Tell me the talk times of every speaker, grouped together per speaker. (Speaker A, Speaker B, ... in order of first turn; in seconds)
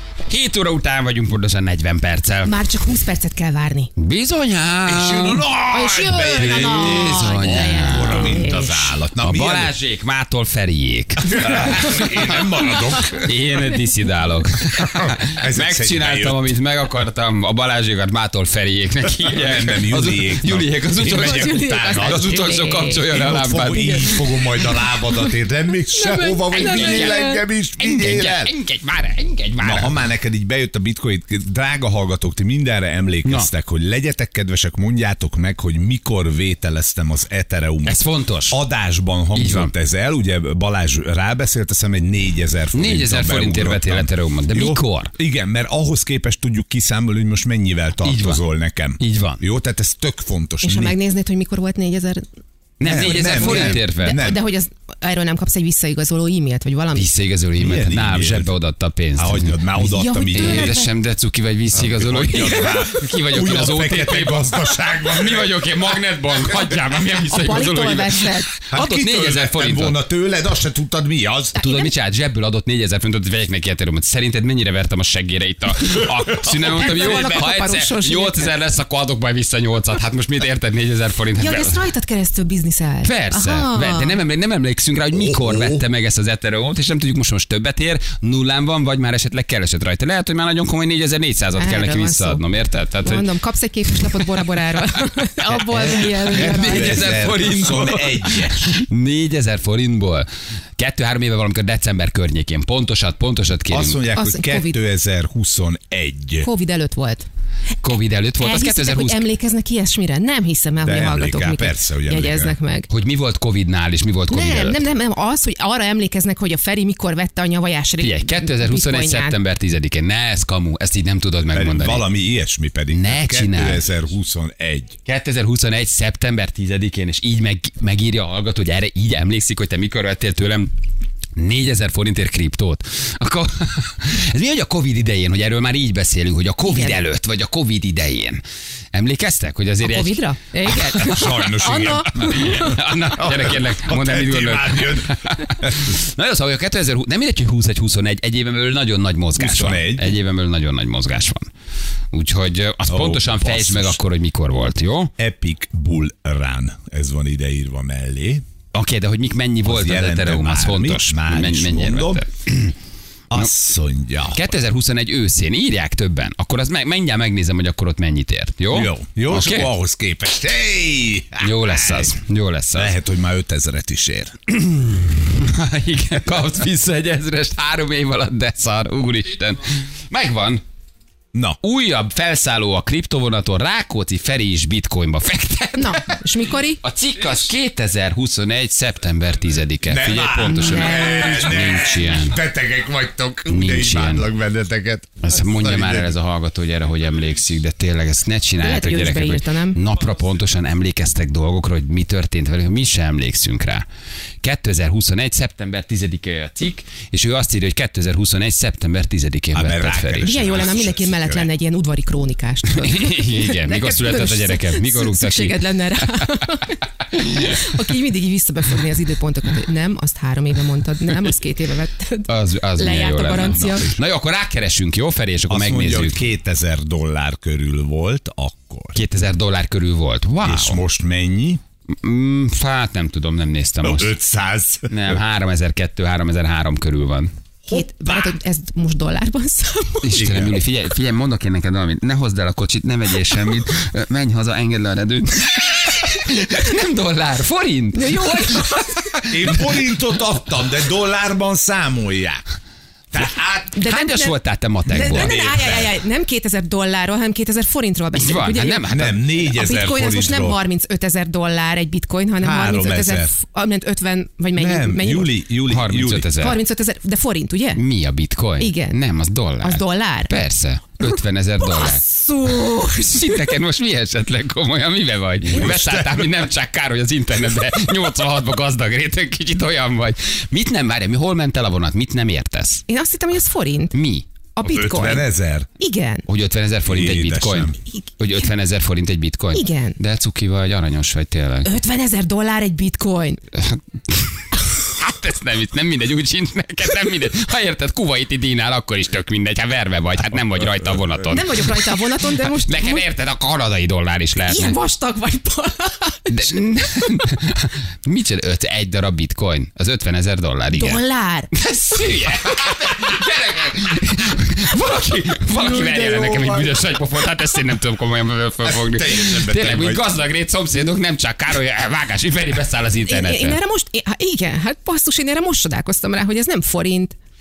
Speaker A: 0.3-2.6, 4.0-5.5, 6.3-8.5, 9.2-12.5, 13.2-24.2, 26.5-27.3, 27.8-30.0, 33.2-33.5, 37.9-38.6, 39.3-39.7, 42.7-45.1, 48.0-48.4, 49.0-49.4, 52.8-54.2, 56.9-70.0, 71.6-81.8, 83.0-93.3, 93.9-94.4, 95.5-104.0, 107.8-109.2, 112.9-114.9, 118.0-122.0, 122.9-123.8, 125.0-130.7, 131.4-138.4, 138.9-151.4, 152.1-155.1, 158.7-162.7, 164.3-169.7, 171.4-172.9, 174.5-180.6, 181.6-186.2, 186.8-192.4, 193.5-194.3, 195.2-203.8, 204.4-210.3, 212.8-216.6, 217.1-217.7, 222.3-226.2, 228.9-230.8, 232.0-234.1, 234.9-237.3, 240.0-249.8, 253.8-255.3, 258.1-259.1, 265.6-266.6, 267.8-272.0, 272.7-282.8, 283.9-284.2, 286.3-291.8, 293.5-304.8, 306.3-311.0, 311.5-323.6
Speaker B: 2.4-3.9, 5.7-8.9, 21.0-25.3, 25.9-27.4, 50.6-52.2, 53.0-57.1, 59.9-60.9, 67.3-68.5, 71.5-71.9, 76.6-78.5, 81.4-84.2, 91.6-92.5, 93.0-97.2, 104.1-104.8, 106.4-107.2, 108.4-112.9, 114.3-119.4, 136.7-137.0, 139.8-142.3, 185.8-186.8, 190.4-191.5, 198.6-199.8, 210.2-224.0, 237.7-240.3, 247.9-249.1, 253.7-265.4, 266.3-267.8, 268.6-269.0, 269.6-270.3, 271.0-273.5, 282.9-284.0, 284.6-286.3, 289.5-290.0, 291.6-293.4, 301.3-303.1, 304.5-306.4, 310.7-311.5, 323.1-327.1
Speaker C: 4.9-9.7, 11.2-13.3, 14.8-16.6, 19.3-22.3, 23.1-28.5, 29.6-51.0, 52.8-54.4, 57.6-58.5, 59.2-60.8, 61.7-65.8, 66.4-66.8, 68.7-71.6, 85.1-85.8, 95.7-98.7, 103.7-106.5, 110.8-112.6, 121.5-125.0, 141.0-145.8, 149.4-150.2, 152.9-154.0, 155.2-158.4, 159.6-162.2, 163.3-164.6, 168.7-172.1, 172.7-174.3, 181.3-181.6, 189.9-196.1, 209.5-211.5, 225.5-229.0, 230.4-231.6, 233.8-235.2, 237.7-238.3, 240.1-240.6, 249.3-252.4, 253.1-253.8, 254.9-256.0, 258.9-260.6, 262.4-263.3, 264.6-266.3, 275.5-276.4, 284.6-285.7, 286.9-287.8, 315.6-316.9, 318.6-320.1